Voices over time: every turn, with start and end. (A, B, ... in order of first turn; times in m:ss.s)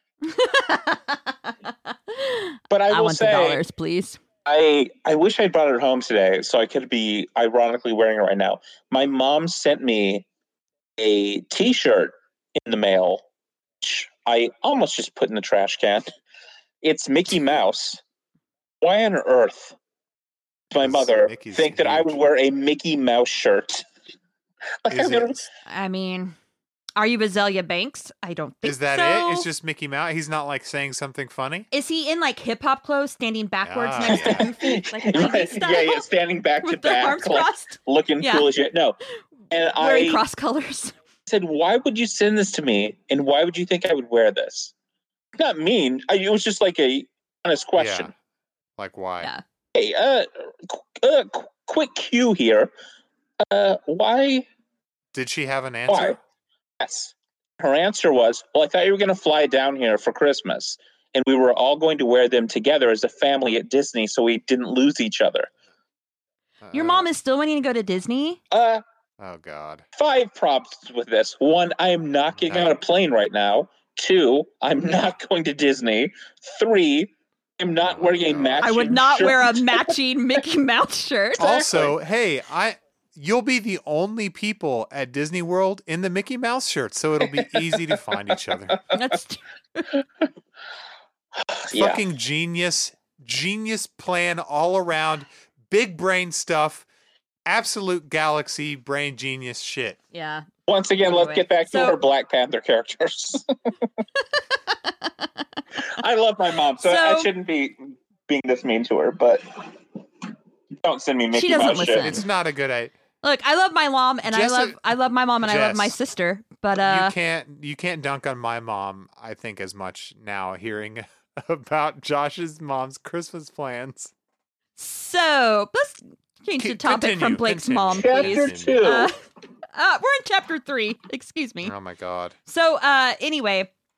0:00.2-0:04.2 A
0:02.7-0:03.6 B
0:04.4-0:10.2 B
0:11.0-0:13.2 B
0:13.8-0:16.1 B
0:16.8-0:18.0 B
0:18.8-0:19.7 B
0:20.7-0:23.8 B
0:20.8-0:22.2 C
0:24.8-0:25.4 B
0:24.9-0:25.4 C
0:25.6-0:26.3 A
0:27.0-0:29.5 A
0:28.6-0:31.7 C
0:31.7-0:36.0 A
0:33.6-0:34.5 C
0:34.0-0:39.0 B
0:36.6-0:38.5 A
0:39.5-0:40.2 B
0:39.8-0:40.9 A
0:41.3-0:44.7 B
0:45.4-0:48.1 B
0:47.8-0:48.1 C
0:48.8-0:49.3 C
0:49.7-0:52.7 B
0:53.4-0:54.4 B
0:55.1-0:56.2 C
0:55.9-0:56.2 B
0:56.8-1:05.5 B
1:06.6-1:07.0 C
1:06.7-1:08.4 A
1:08.5-1:08.8 B
1:09.2-1:09.8 C
1:10.0-1:19.9 B
1:12.4-1:12.7 C
1:17.8-1:18.9 C
1:18.6-1:21.6 A
1:21.4-1:21.9 B
1:21.4-1:28.8 C
1:28.9-1:29.9 A
1:31.4-1:32.0 B
1:31.7-1:36.8 C
1:37.4-1:40.0 C
1:40.1-1:40.5 A
1:40.7-1:43.5 B
1:41.0-1:42.0 A
1:44.7-1:45.6 A
1:46.0-1:49.8 B
1:46.8-1:47.3 A
1:50.8-1:52.2 B
1:51.3-1:52.2 A
1:52.0-1:52.9 C
1:53.2-1:57.1 A
1:54.2-1:54.9 C
1:55.4-1:55.9 C
1:56.7-2:04.1 C
2:04.8-2:09.1 A
2:06.6-2:08.8 C
2:07.9-2:09.1 B
2:09.7-2:11.7 A
2:11.6-2:12.4 C
2:12.5-2:13.7 A